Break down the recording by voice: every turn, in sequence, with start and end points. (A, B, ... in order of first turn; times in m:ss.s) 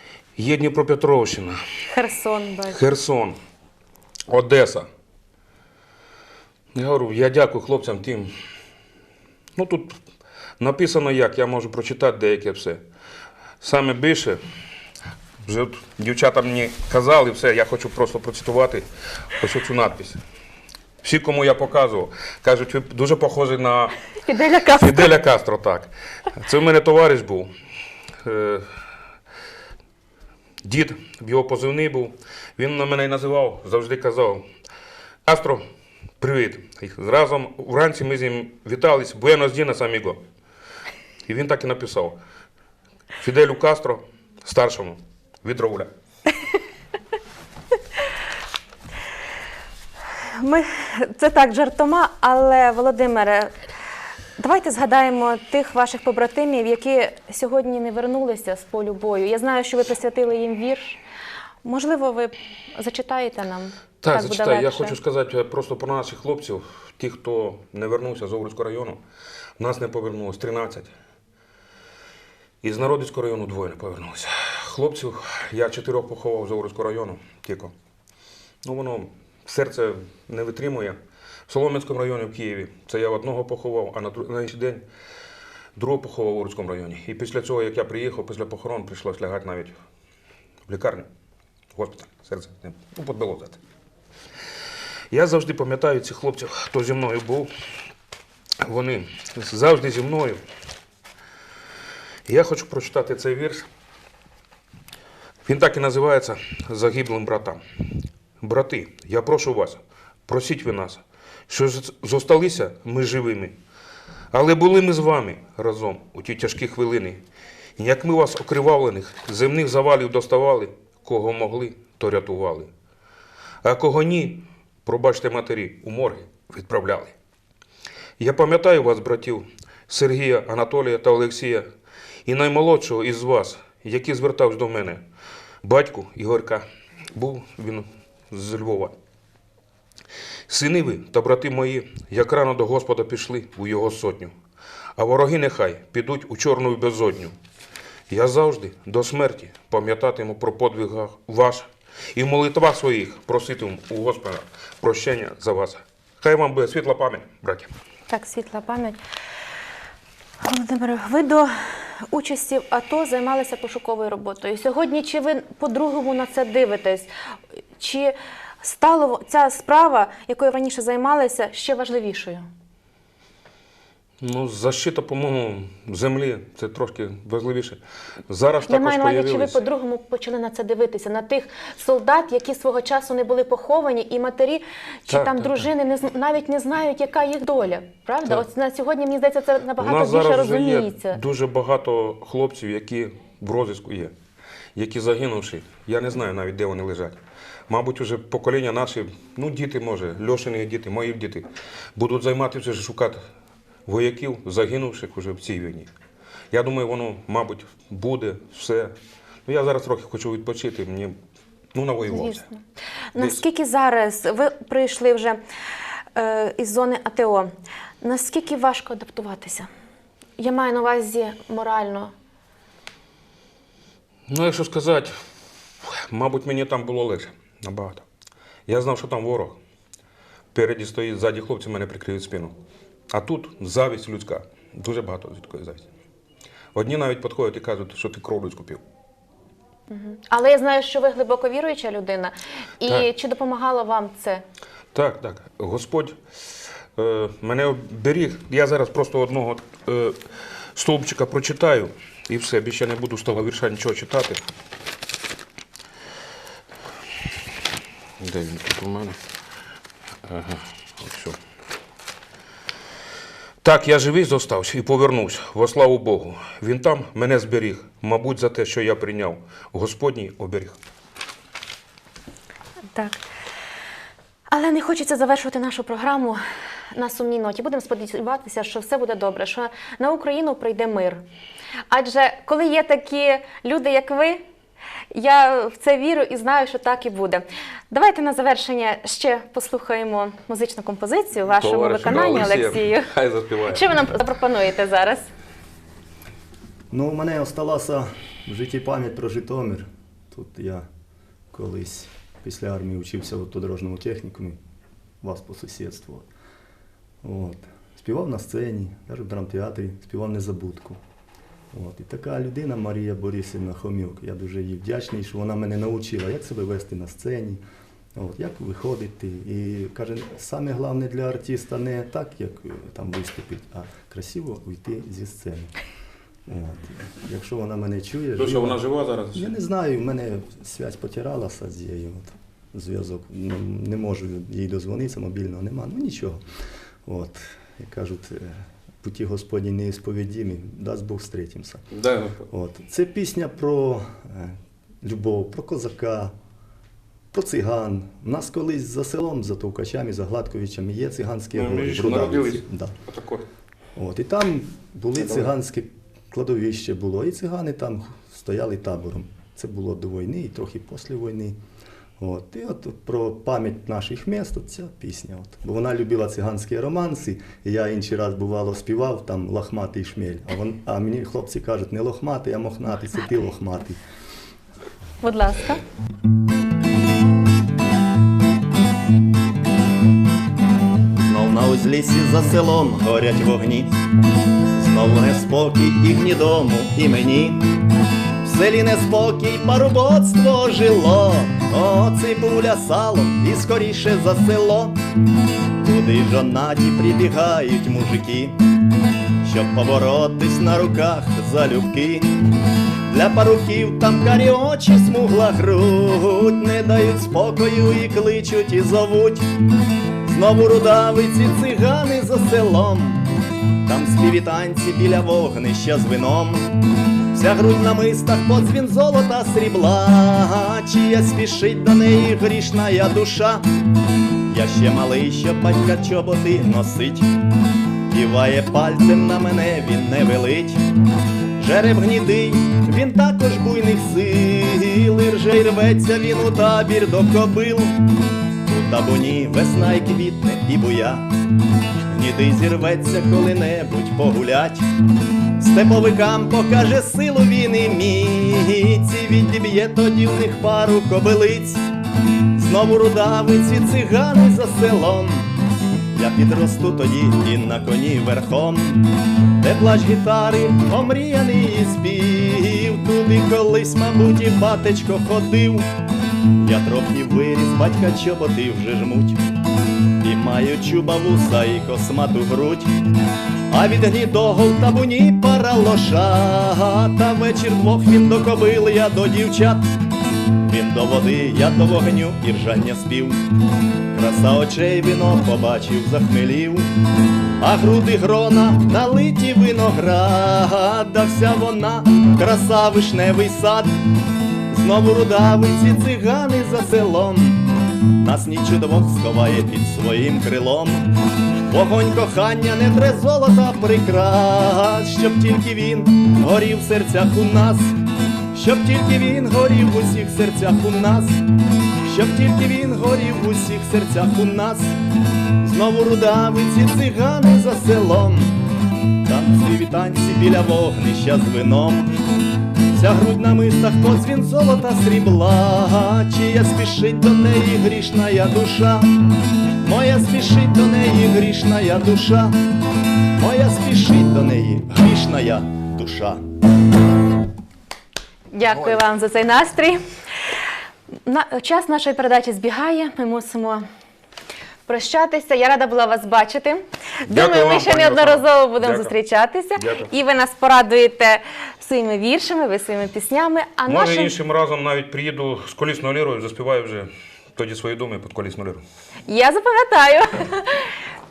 0:00.4-0:01.6 A
0:01.9-0:02.8 B
0:02.7-0:03.4 A
0:04.3-0:04.9 A
0:06.7-0:08.3 A
0:09.6-0:10.0 A
0:10.6-0:12.8 A
0:13.6-0:14.4 A
0:15.4-0:20.2 A
0:21.0-0:24.0 A
0:24.2-0:25.1 B
0:24.8-0:27.5 A
0:28.2-0:28.7 A
0:30.6-0:34.4 A
0:35.2-0:35.6 A
0:36.2-0:40.2 A
0:41.3-0:42.2 A
0:43.2-0:45.9 A
0:50.3-0:53.5 B
0:54.4-1:01.0 B
1:01.6-1:05.0 B
1:04.0-1:09.0 A
1:09.6-1:10.9 A
1:12.6-1:17.7 A
1:18.6-1:24.8 A
1:25.8-1:29.8 A
1:30.7-1:31.1 A
1:31.7-1:33.6 A
1:35.1-1:37.5 A
1:38.6-1:40.4 A
1:42.2-1:43.7 A
1:45.4-1:47.6 A
1:48.4-1:53.5 A
1:54.3-1:57.2 A
1:57.8-2:02.7 A
2:03.6-2:07.1 A
2:08.2-2:11.6 A
2:12.2-2:15.0 A
2:15.6-2:18.9 A
2:20.5-2:24.3 A
2:25.0-2:27.3 A
2:28.1-2:37.7 A
2:38.1-2:39.0 B
2:40.4-2:47.1 B
2:47.8-2:52.4 B
2:54.2-2:59.6 A
2:58.6-3:11.2 B
3:05.1-3:05.7 A
3:09.8-3:14.1 A
3:14.7-3:23.2 A
3:23.8-3:25.9 A
3:26.5-3:28.9 A
3:29.4-3:31.2 A
3:31.7-3:32.4 A
3:32.1-3:32.6 B
3:33.1-3:35.4 B
3:36.1-3:37.5 B
3:38.0-3:39.7 B
3:40.4-3:42.1 B
3:44.3-3:45.1 A
3:45.8-3:48.0 A
3:48.7-3:49.6 A
3:50.5-3:52.5 A
3:53.1-3:55.8 A
3:56.7-3:58.8 A
3:59.9-4:04.4 B
4:04.9-4:06.2 A
4:07.0-4:10.2 A
4:10.7-4:14.4 A
4:18.2-4:19.2 A
4:20.2-4:21.4 A
4:23.6-4:30.8 A
4:32.9-4:33.2 B
4:34.5-4:36.4 B
4:36.9-4:41.2 B
4:41.9-4:44.4 B
4:45.1-4:53.1 B
4:51.5-4:53.9 A
4:53.6-4:55.3 B
4:56.9-5:00.8 C
5:01.5-5:04.6 C
5:05.2-5:06.3 C
5:07.2-5:11.0 C
5:11.7-5:17.6 C
5:18.2-5:25.7 C
5:26.5-5:28.8 C
5:28.4-5:29.5 A
5:29.3-5:36.4 C
5:37.0-5:41.8 C
5:41.9-5:42.4 A
5:42.5-5:46.3 C
5:47.3-5:53.0 C
5:51.5-5:53.5 A
5:54.0-6:01.6 C
5:55.2-5:55.5 A
6:02.2-6:14.0 C
6:15.2-6:15.8 B
6:21.2-6:23.9 C
6:24.7-6:27.6 C
6:28.4-6:35.0 C
6:35.8-6:38.6 C
6:39.4-6:42.4 C
6:43.1-6:49.5 C
6:50.2-6:53.3 C
6:53.8-6:56.8 C
6:57.3-7:03.6 C
7:04.4-7:07.3 C
7:08.1-7:10.8 C
7:11.6-7:18.1 C
7:18.6-7:21.3 C
7:22.1-7:24.9 C
7:25.6-7:31.8 C
7:32.5-7:35.6 C
7:36.1-7:45.9 C
7:46.6-7:49.4 C
7:50.2-7:52.9 C
7:53.7-7:59.9 C
8:00.6-8:03.5 C
8:04.1-8:06.9 C
8:07.6-8:14.0 C
8:14.7-8:21.2 C
8:21.7-8:28.0 C
8:28.5-8:31.4 C
8:32.0-8:34.9 C
8:35.6-8:38.6 C
8:39.2-8:42.1 C
8:42.9-8:49.1 C
8:49.8-8:52.6 C
8:53.4-8:56.4 C
8:58.5-9:00.0 B
9:01.2-9:03.8 B
9:04.9-9:14.3 B
9:07.3-9:09.1 A
9:09.8-9:10.1 A
9:13.9-9:18.8 A
9:19.3-9:20.9 B